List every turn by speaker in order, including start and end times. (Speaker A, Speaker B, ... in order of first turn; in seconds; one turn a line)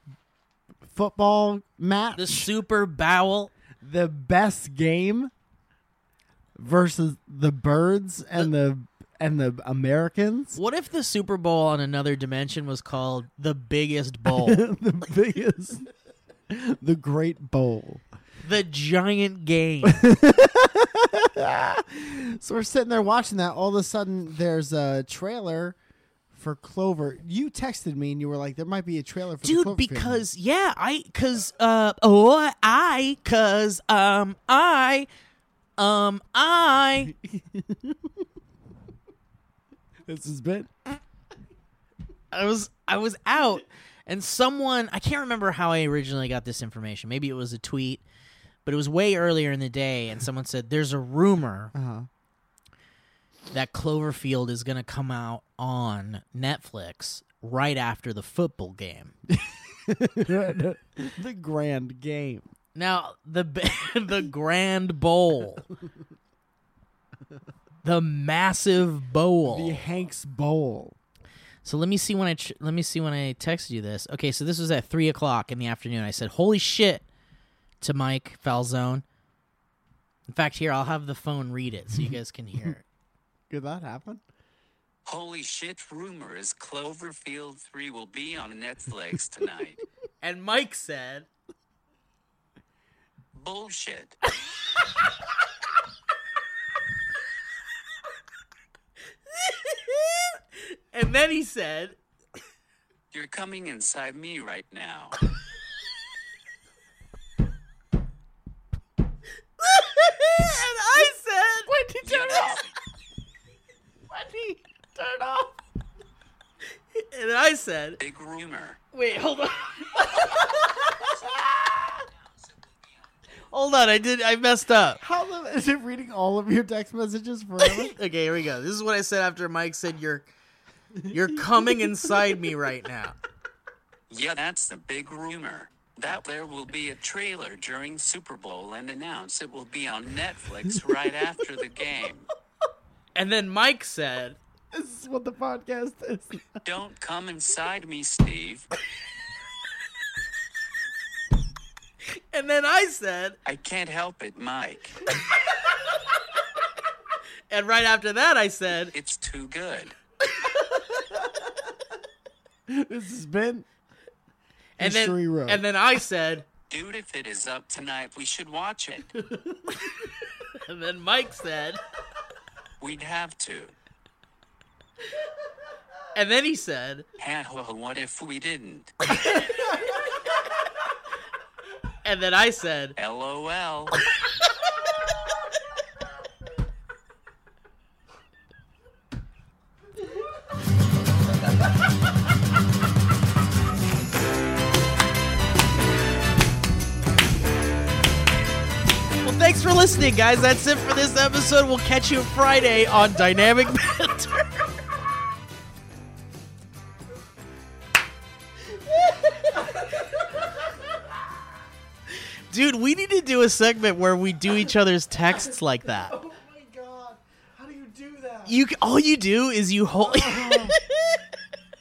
Speaker A: 0.8-2.5
Speaker B: 2.1-3.5
Speaker A: 3.8-5.3
Speaker A: 6.6-10.6
Speaker B: 10.6-14.6
Speaker A: 14.2-15.8
Speaker A: 16.5-18.0
Speaker B: 18.4-20.0
Speaker A: 19.8-25.8
Speaker A: 26.3-30.2
Speaker B: 29.4-35.1
Speaker B: 35.8-37.1
Speaker A: 37.1-38.2
Speaker A: 40.1-40.7
Speaker B: 42.3-48.0
Speaker B: 48.6-51.7
Speaker A: 51.7-52.1
Speaker B: 53.5-59.1
Speaker A: 59.3-62.5
Speaker B: 62.8-65.7
Speaker B: 67.8-69.8
Speaker A: 69.5-71.0
Speaker B: 71.6-77.0
Speaker B: 77.8-79.0
Speaker B: 80.3-82.8
Speaker A: 83.5-84.2
Speaker C: 85.0-89.8
Speaker B: 90.2-91.3
Speaker C: 93.3-94.1
Speaker B: 99.3-102.0
Speaker C: 103.1-105.2
Speaker B: 109.6-111.7
Speaker A: 111.7-112.6
Speaker C: 112.0-112.7
Speaker A: 114.1-115.5
Speaker B: 116.9-118.0
Speaker C: 118.0-118.8
Speaker B: 118.9-120.0
Speaker A: 120.0-122.0
Speaker B: 123.5-125.0
Speaker A: 125.0-127.9
Speaker B: 127.6-130.3
Speaker A: 131.0-131.9
Speaker B: 131.0-133.2
Speaker C: 134.1-142.3
Speaker B: 143.2-144.4
Speaker A: 144.7-146.6
Speaker C: 146.6-148.7
Speaker B: 152.1-153.4
Speaker C: 153.4-155.0
Speaker B: 157.5-158.9
Speaker C: 158.9-159.9
Speaker A: 161.0-161.3
Speaker A: 162.7-163.7
Speaker A: 164.8-165.6
Speaker B: 164.8-166.4
Speaker C: 166.7-169.1
Speaker B: 170.4-171.8
Speaker C: 172.8-173.7
Speaker B: 176.1-177.0
Speaker C: 177.2-178.9
Speaker B: 179.3-179.7
Speaker B: 182.0-182.9
Speaker C: 183.0-184.0
Speaker B: 199.2-204.7
Speaker A: 209.4-210.8
Speaker B: 212.5-216.1
Speaker A: 215.9-218.6
Speaker B: 218.4-221.2
Speaker A: 220.0-220.8